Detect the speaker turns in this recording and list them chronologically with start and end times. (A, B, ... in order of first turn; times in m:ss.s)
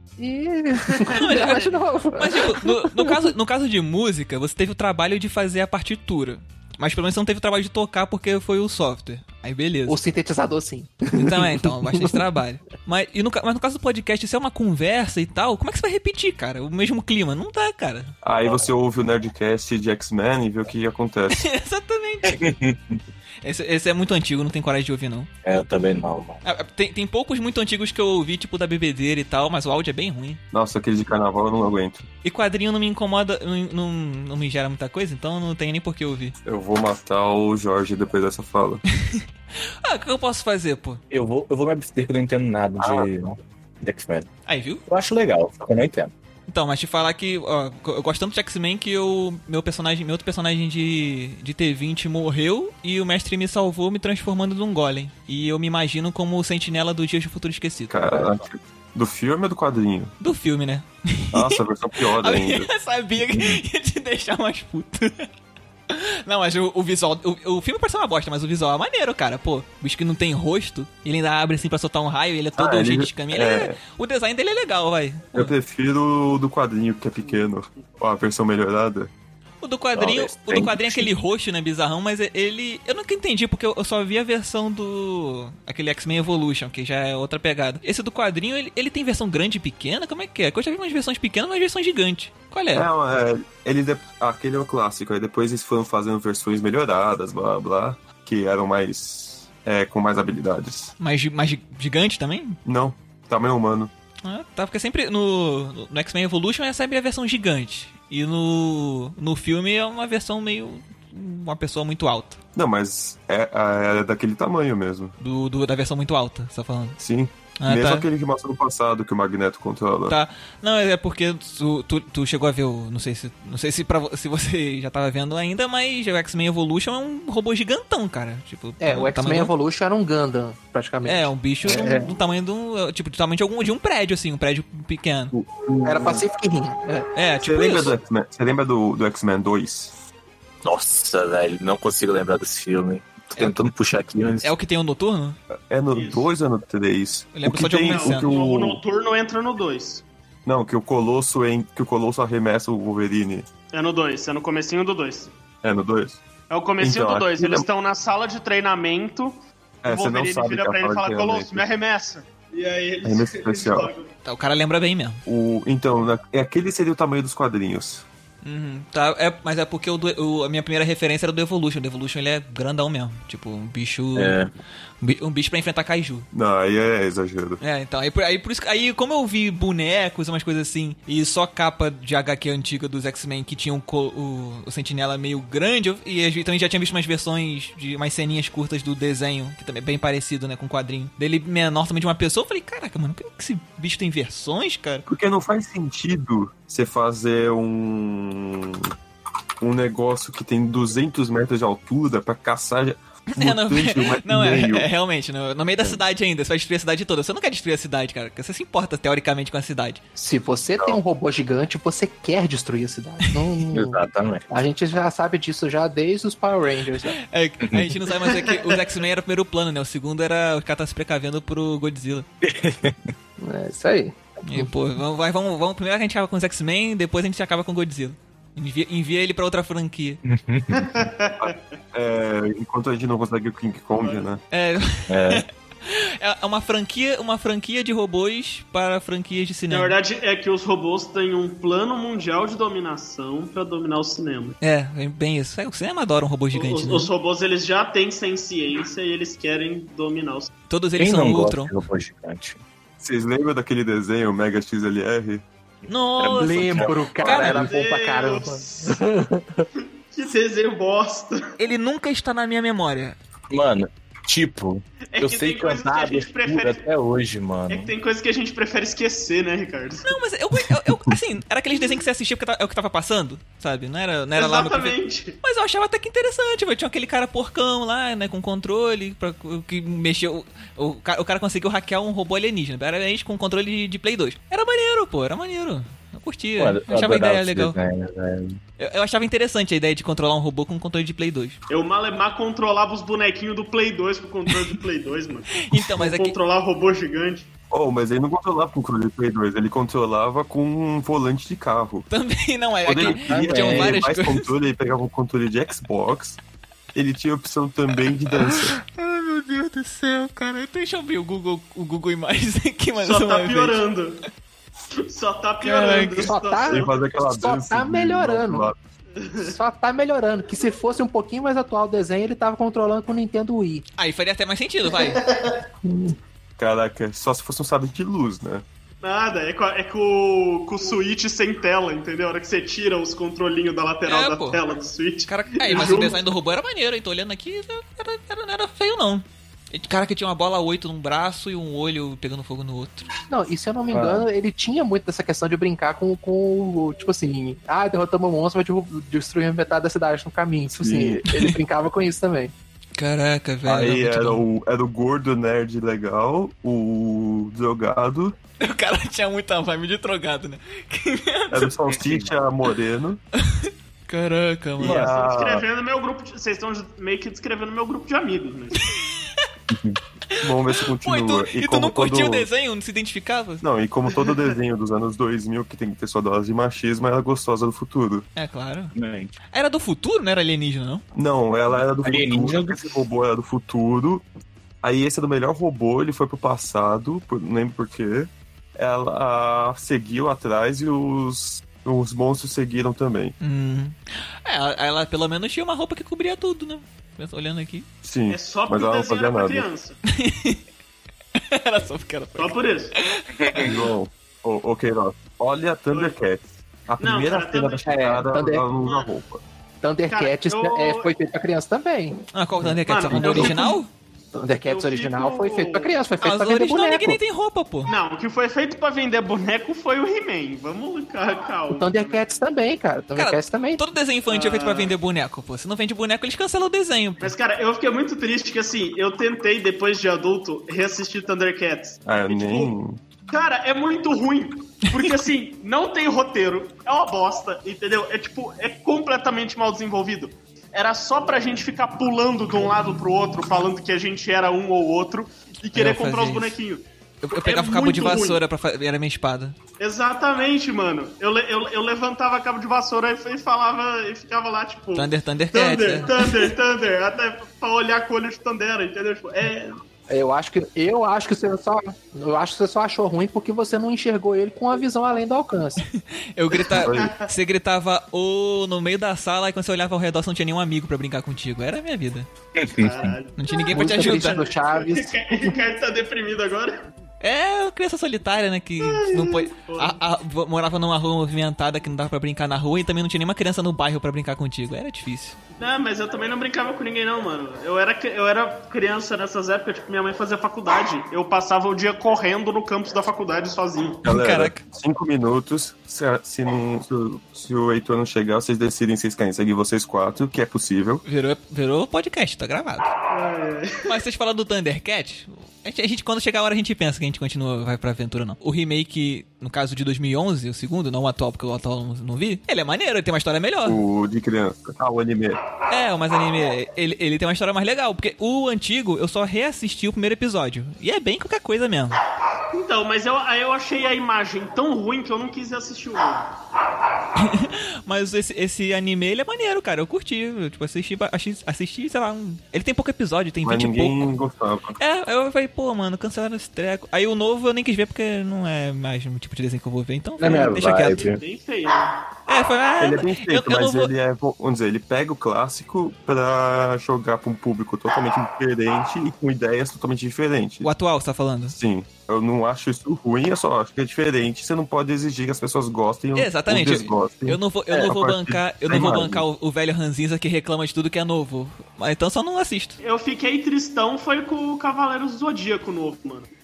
0:00.2-0:03.3 A
0:00.9-0:01.6 B
0:01.1-0:10.0 C
0:09.9-0:12.2 A
0:11.2-0:18.2 C
0:18.2-0:21.4 D
0:21.3-0:22.5 C
0:22.2-0:23.0 E
0:23.4-0:25.3 C
0:25.4-0:26.4 E
0:26.4-0:30.4 C
0:30.5-0:32.0 D
0:32.2-0:36.4 C
0:36.4-0:38.8 D
0:39.8-0:41.0 C
0:41.1-0:44.3 E
0:42.8-0:43.1 D
0:44.5-0:44.8 C
0:44.9-0:46.1 E
0:46.5-0:58.2 C
0:57.9-1:00.1 D
1:00.2-1:05.3 C
1:01.3-1:02.7 D
1:05.9-1:15.5 C
1:12.6-1:13.8 D
1:15.3-1:19.1 D
1:19.6-1:32.9 C
1:20.0-1:21.1 E
1:32.7-1:40.9 D
1:41.0-1:42.6 C
1:42.6-1:43.9 D
1:44.2-1:52.4 C
1:52.5-1:55.1 D
1:55.2-1:57.0 C
1:57.0-2:00.2 D
1:57.6-1:58.1 C
2:00.1-2:09.5 C
2:08.8-2:12.2 A
2:11.0-2:15.3 C
2:15.3-2:16.2 D
2:15.8-2:17.1 A
2:17.1-2:18.0 C
2:17.4-2:19.9 D
2:20.6-2:24.5 E
2:24.4-2:25.4 C
2:25.5-2:28.8 D
2:25.9-2:26.3 B
2:27.3-2:28.3 C
2:27.9-2:30.0 B
2:30.4-2:33.5 D
2:33.7-2:35.3 B
2:35.6-2:36.2 D
2:36.5-2:44.1 B
2:36.8-2:37.7 D
2:39.8-2:41.6 D
2:43.0-2:43.9 D
2:44.2-2:45.2 C
2:45.2-2:48.0 D
2:48.4-2:54.4 C
2:54.2-2:54.5 E
2:55.0-2:56.2 C
2:56.3-2:57.6 D
2:57.6-3:15.1 C
3:15.0-3:18.9 D
3:19.6-3:24.9 D
3:23.3-3:30.0 C
3:30.2-3:37.2 A
3:33.7-3:34.5 E
3:37.0-3:42.2 C
3:37.6-3:38.0 E
3:38.3-3:38.8 B
3:42.4-3:43.1 E
3:43.4-3:44.7 A
3:44.4-3:50.2 C
3:50.2-3:51.1 E
3:50.7-3:51.6 B
3:51.4-3:54.4 D
3:54.0-3:54.3 B
3:54.5-4:00.0 C
3:55.1-3:55.4 E
3:59.7-4:04.6 B
4:04.6-4:07.1 C
4:06.5-4:10.5 B
4:10.7-4:11.8 C
4:11.0-4:12.6 E
4:13.0-4:15.4 D
4:15.9-4:17.6 C
4:16.2-4:17.7 E
4:16.4-4:19.7 A
4:17.2-4:19.0 B
4:20.1-4:21.5 B
4:21.6-4:23.2 C
4:23.5-4:27.9 E
4:25.1-4:26.8 B
4:27.7-4:30.2 B
4:30.0-4:47.8 C
4:34.4-4:35.4 B
4:46.6-4:48.6 E
4:48.8-4:51.6 C
4:51.7-4:57.5 B
4:55.6-4:56.4 C
4:57.7-5:02.1 D
5:02.1-5:04.5 C
5:02.8-5:06.4 D
5:03.0-5:04.0 E
5:06.9-5:08.8 D
5:08.3-5:13.8 C
5:13.0-5:14.2 B
5:15.0-5:16.9 B
5:15.6-5:16.3 C
5:16.2-5:18.7 A
5:16.7-5:18.8 D
5:19.2-5:19.5 B
5:19.4-5:23.8 A
5:24.0-5:25.3 C
5:25.1-5:25.6 B
5:25.8-5:26.1 A
5:26.6-5:28.6 D
5:29.0-5:36.2 B
5:34.1-5:34.6 C
5:35.3-5:43.1 C
5:43.3-5:52.5 A
5:43.9-5:44.2 E
5:50.8-5:51.3 D
5:53.0-5:54.4 C
5:53.6-5:58.4 D
5:58.6-6:01.7 C
6:01.5-6:03.2 D
6:01.9-6:02.2 E
6:03.4-6:05.1 C
6:04.8-6:05.6 D
6:04.8-6:08.9 B
6:09.0-6:09.3 C
6:09.7-6:10.0 E
6:10.3-6:13.6 C
6:10.4-6:12.5 D
6:13.6-6:18.2 D
6:18.4-6:18.9 C
6:18.9-6:19.3 E
6:19.5-6:21.0 C
6:21.1-6:24.2 D
6:22.0-6:22.9 E
6:24.8-6:33.3 D
6:33.4-6:37.9 C
6:38.0-6:39.7 D
6:38.3-6:40.0 B
6:40.0-6:40.6 C
6:41.4-6:43.8 C
6:42.4-6:42.9 B
6:43.3-6:43.8 E
6:43.6-6:49.4 D
6:45.9-6:46.2 B
6:47.0-6:48.0 B
6:47.9-6:48.6 A
6:48.8-6:49.1 B
6:49.8-6:53.6 A
6:50.1-6:51.1 B
6:52.3-6:53.9 C
6:52.9-6:53.8 B
6:54.3-6:57.2 A
6:54.6-6:56.0 B
6:56.2-6:57.9 C
6:57.9-7:02.2 B
7:01.7-7:03.8 A
7:03.1-7:07.3 C
7:04.3-7:05.0 B
7:07.2-7:12.7 B
7:12.0-7:13.0 D
7:13.3-7:28.4 B
7:25.7-7:26.6 C
7:27.2-7:29.6 C
7:29.8-7:39.8 B
7:34.9-7:36.5 C
7:40.1-7:45.8 A
7:45.9-7:52.3 C
7:46.7-7:47.3 B
7:46.8-7:47.1 D
7:52.6-7:53.1 E
7:52.8-7:56.8 B
7:53.4-7:54.4 C
7:53.7-7:55.6 A
7:57.2-8:05.4 C
7:58.8-8:00.0 B
8:05.6-8:14.0 B
8:14.0-8:21.0 D
8:14.0-8:14.6 C
8:21.0-8:22.9 C
8:23.1-8:23.9 B
8:23.8-8:33.8 C
8:33.6-8:35.4 D
8:35.7-8:42.0 C
8:42.5-8:46.3 B
8:47.1-8:54.1 C
8:53.4-8:54.8 D
8:54.8-9:01.1 C
9:00.2-9:01.2 E
9:00.3-9:02.0 B
9:02.3-9:03.9 C
9:02.8-9:10.7 D
9:10.6-9:11.6 C
9:11.5-9:19.2 D
9:16.1-9:22.8 C
9:22.8-9:26.3 B